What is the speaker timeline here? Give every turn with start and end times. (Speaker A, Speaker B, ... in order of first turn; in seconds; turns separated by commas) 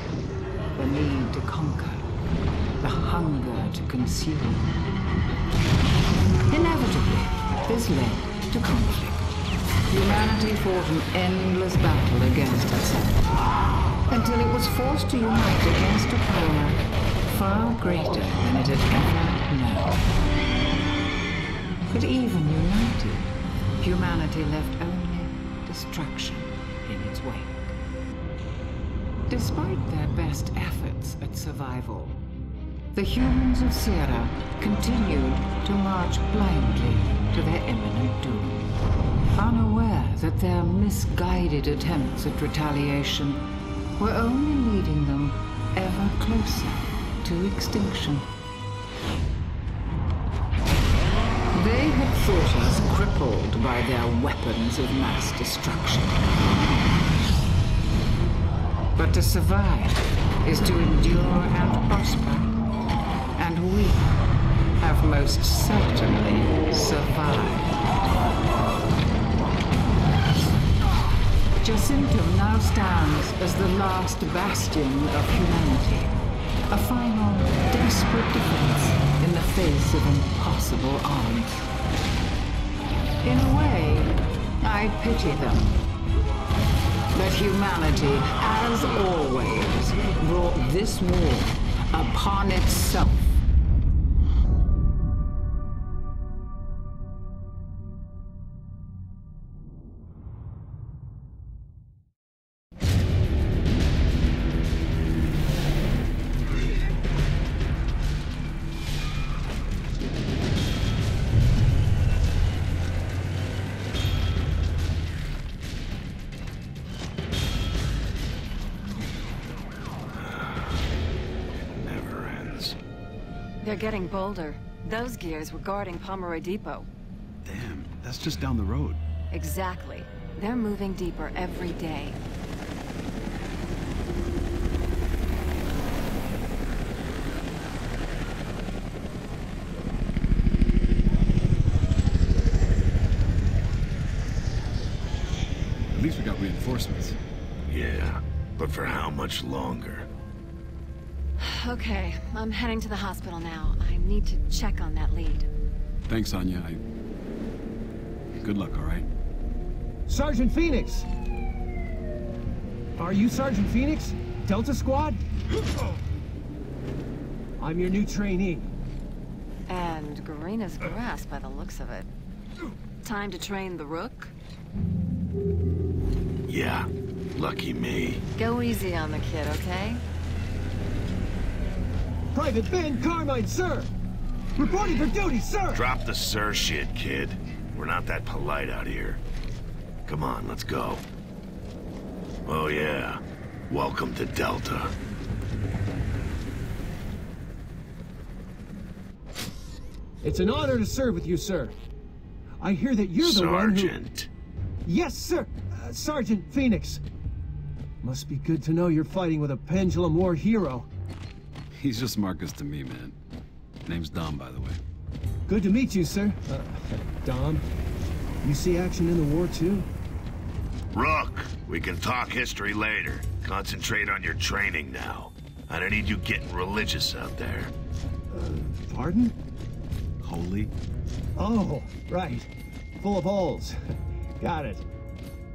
Speaker A: 0.7-2.1, Speaker A: 2.8-4.7, Speaker A: 6.5-9.3, Speaker A: 9.9-13.4, Speaker A: 14.1-20.0, Speaker A: 21.9-27.7, Speaker A: 29.3-32.2, Speaker A: 32.9-38.7, Speaker A: 39.3-48.3, Speaker A: 51.5-56.4, Speaker A: 58.9-62.5, Speaker A: 63.4-64.2, Speaker A: 64.8-67.7, Speaker A: 71.6-81.7, Speaker A: 83.2-85.8, Speaker A: 87.1-93.4, Speaker B: 120.2-120.8, Speaker B: 121.5-122.8, Speaker C: 123.6-126.9, Speaker D: 127.4-129.0, Speaker C: 129.3-132.2, Speaker D: 145.9-147.2, Speaker B: 147.7-150.1, Speaker C: 151.4-155.5, Speaker D: 156.1-156.8, Speaker D: 158.4-159.1, Speaker E: 160.1-161.1, Speaker E: 163.0-165.2, Speaker E: 167.6-168.7, Speaker C: 169.7-172.1, Speaker C: 173.0-174.3, Speaker B: 176.4-178.2, Speaker C: 178.4-180.0, Speaker E: 182.3-183.9, Speaker E: 184.6-185.8, Speaker B: 185.7-189.2, Speaker B: 190.1-191.0, Speaker B: 192.4-194.9, Speaker E: 200.2-201.8, Speaker E: 202.6-203.9, Speaker B: 203.2-204.3, Speaker E: 204.8-207.0, Speaker E: 208.0-210.9, Speaker D: 211.8-213.1, Speaker D: 213.8-214.8, Speaker E: 215.5-217.6, Speaker E: 218.4-219.9, Speaker B: 220.9-227.7, Speaker E: 228.3-229.3, Speaker D: 230.2-230.7, Speaker E: 231.4-232.5, Speaker E: 233.0-233.8, Speaker E: 234.4-234.8